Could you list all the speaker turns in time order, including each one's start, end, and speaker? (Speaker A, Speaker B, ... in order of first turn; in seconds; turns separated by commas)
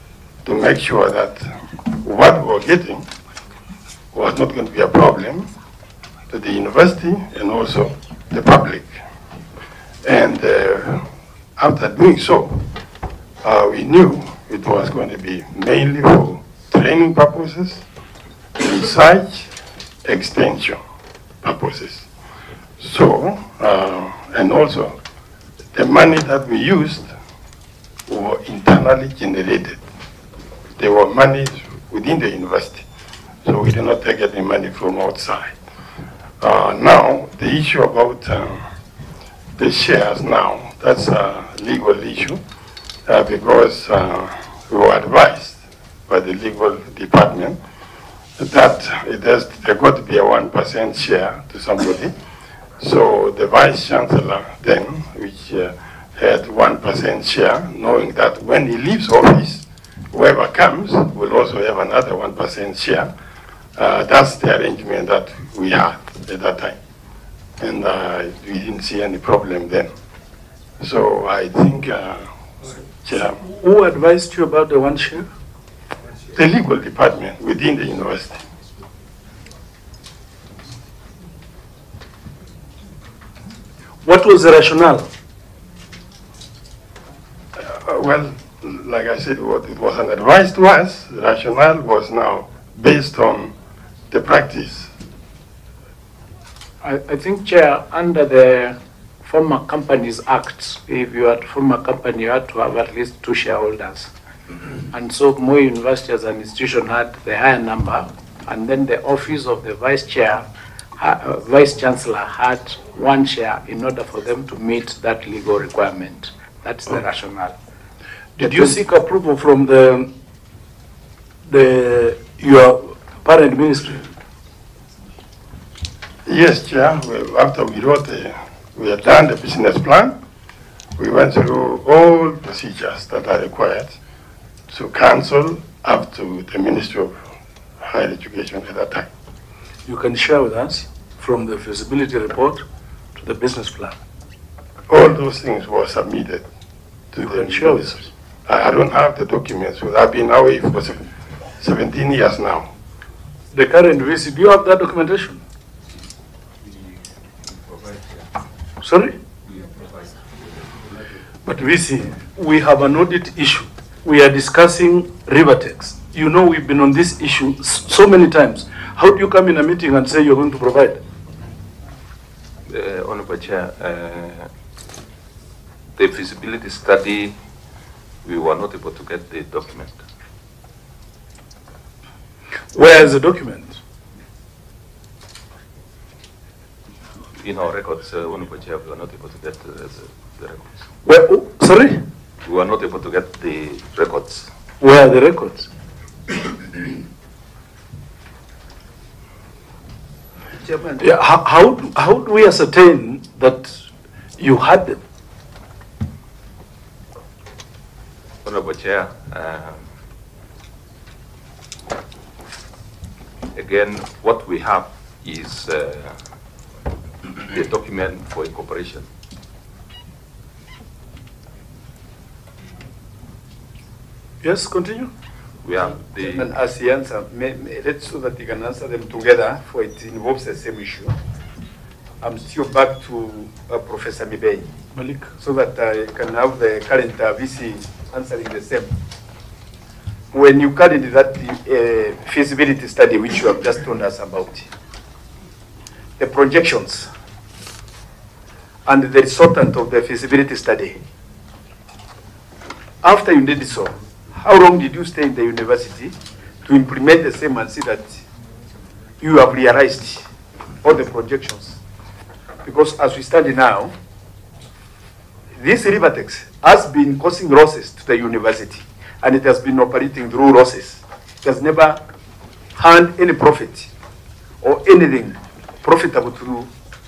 Speaker A: 0.4-3.0, Speaker A: 4.1-5.5, Speaker A: 6.3-9.0, Speaker A: 10.0-11.0, Speaker A: 11.6-12.7, Speaker A: 13.4-17.8, Speaker A: 18.6-19.5, Speaker A: 20.0-20.8, Speaker A: 21.4-22.1, Speaker A: 22.8-25.0, Speaker A: 25.7-27.1, Speaker A: 28.1-29.8, Speaker A: 30.8-32.9, Speaker A: 33.4-35.5, Speaker A: 36.4-38.6, Speaker A: 39.6-42.4, Speaker A: 43.0-47.6, Speaker A: 48.4-52.1, Speaker A: 52.8-63.1, Speaker A: 63.8-66.8, Speaker A: 67.6-69.9, Speaker A: 70.8-72.3, Speaker A: 73.0-73.4, Speaker B: 73.5-75.3, Speaker A: 76.3-78.4, Speaker B: 84.0-85.1, Speaker A: 87.6-93.5, Speaker A: 94.1-94.9, Speaker C: 96.8-104.1, Speaker C: 104.9-110.5, Speaker C: 111.0-117.5, Speaker B: 118.4-120.1, Speaker C: 118.4-118.8, Speaker B: 121.5-124.1, Speaker A: 126.2-130.1, Speaker A: 131.0-134.0, Speaker A: 134.7-137.2, Speaker A: 137.8-139.1, Speaker B: 139.9-142.6, Speaker B: 143.2-143.9, Speaker A: 144.9-146.4, Speaker A: 147.1-151.1, Speaker B: 147.2-148.1, Speaker A: 151.6-152.7, Speaker B: 153.5-155.4, Speaker B: 158.8-159.2, Speaker B: 161.4-171.0, Speaker D: 172.7-174.5, Speaker D: 176.0-177.3, Speaker D: 178.2-180.0, Speaker B: 182.7-183.8, Speaker D: 187.4-190.7, Speaker B: 191.0-192.0, Speaker D: 192.4-194.5, Speaker B: 194.8-195.7, Speaker E: 200.6-201.0, Speaker B: 201.0-203.8, Speaker B: 204.4-205.0, Speaker D: 208.4-209.8, Speaker D: 213.5-216.1, Speaker D: 217.4-219.1, Speaker B: 224.4-225.1, Speaker D: 225.6-226.5, Speaker E: 226.2-231.1, Speaker E: 232.2-234.7, Speaker B: 234.9-235.3, Speaker E: 235.4-238.9, Speaker E: 240.3-244.7, Speaker E: 246.2-247.1, Speaker E: 248.8-251.0, Speaker E: 253.0-258.2, Speaker E: 259.2-260.3, Speaker E: 260.8-261.8, Speaker E: 262.6-263.9, Speaker E: 265.6-272.0, Speaker E: 272.7-273.9, Speaker E: 274.6-276.7